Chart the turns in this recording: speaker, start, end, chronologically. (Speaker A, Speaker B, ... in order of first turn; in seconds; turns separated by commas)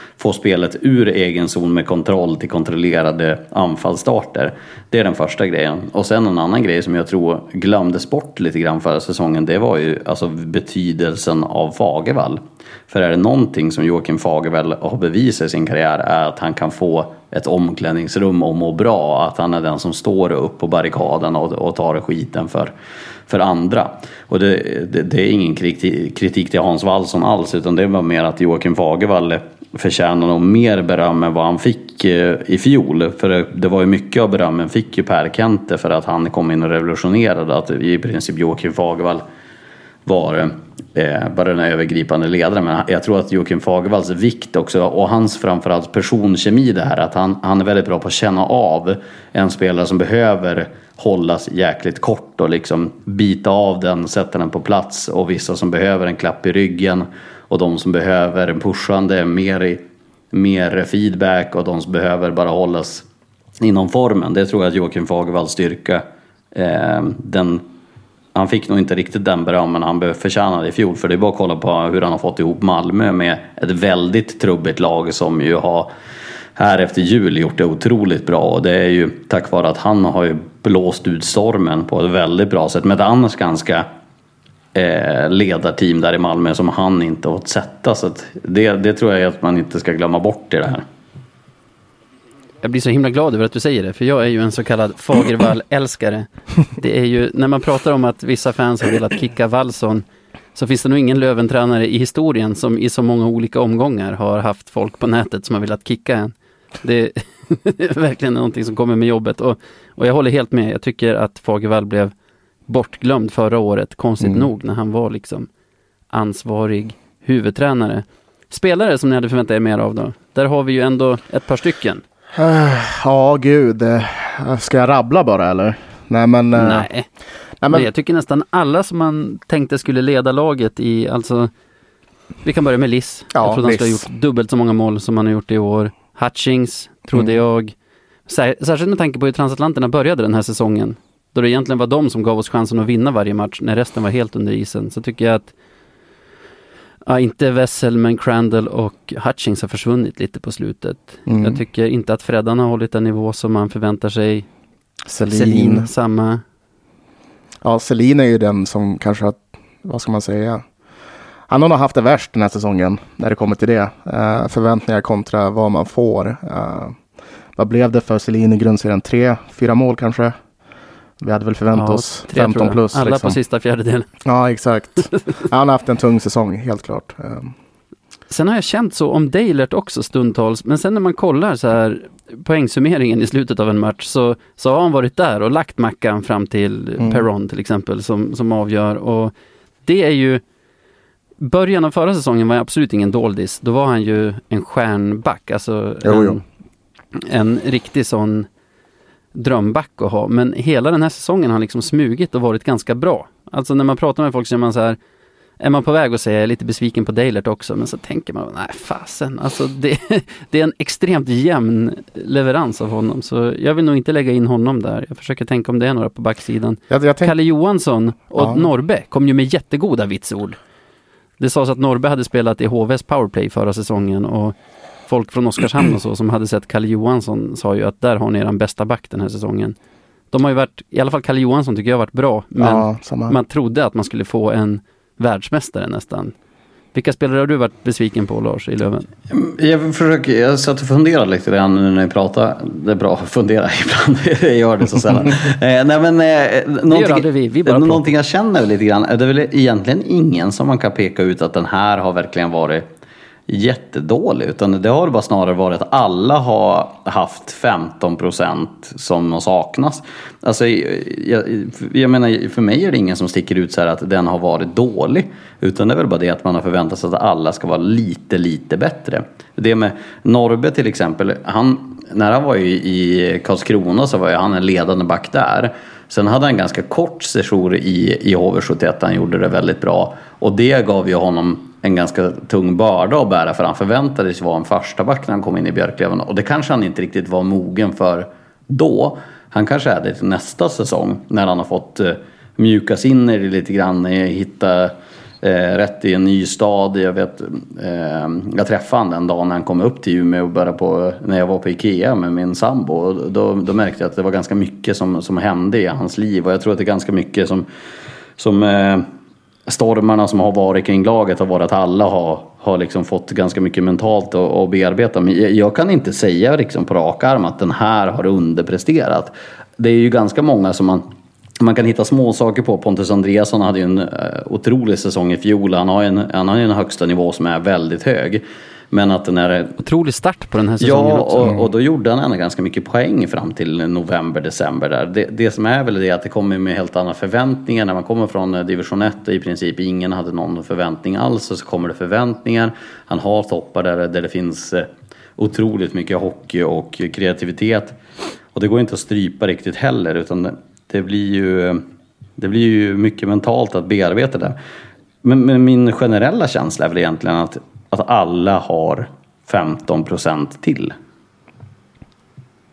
Speaker A: 0.2-22.7, Speaker A: 23.3-39.2, Speaker A: 40.1-63.1, Speaker A: 63.6-67.7, Speaker A: 68.3-75.9, Speaker A: 76.6-83.9, Speaker A: 84.8-90.9, Speaker B: 92.6-112.1, Speaker B: 112.7-115.5, Speaker C: 114.2-114.5, Speaker B: 116.1-122.0, Speaker C: 122.3-126.9, Speaker B: 126.5-127.1, Speaker C: 127.6-127.9, Speaker B: 127.7-131.5, Speaker B: 132.4-137.8, Speaker C: 133.3-134.1, Speaker B: 138.3-145.5, Speaker B: 147.1-154.5, Speaker C: 151.3-151.6, Speaker C: 155.1-155.9, Speaker B: 155.3-156.4, Speaker C: 157.6-160.6, Speaker C: 161.5-167.0, Speaker C: 167.6-170.4, Speaker C: 171.2-173.4, Speaker B: 171.8-174.1, Speaker C: 174.2-177.5, Speaker B: 178.3-190.4, Speaker C: 187.0-187.3, Speaker B: 191.4-196.4, Speaker C: 196.0-196.4, Speaker B: 197.2-198.5, Speaker B: 199.3-205.0, Speaker B: 205.6-220.6, Speaker C: 216.9-217.3, Speaker C: 218.4-218.6, Speaker B: 221.4-224.6, Speaker B: 225.1-229.8, Speaker B: 230.3-236.3, Speaker C: 232.6-233.4, Speaker B: 236.9-239.1, Speaker A: 239.3-252.9, Speaker B: 246.9-248.1, Speaker A: 253.5-307.7, Speaker A: 308.4-309.1, Speaker A: 309.7-321.1, Speaker A: 321.6-329.8, Speaker B: 329.8-331.5, Speaker A: 330.8-348.0, Speaker A: 348.5-351.8, Speaker A: 352.4-354.6, Speaker A: 355.2-360.9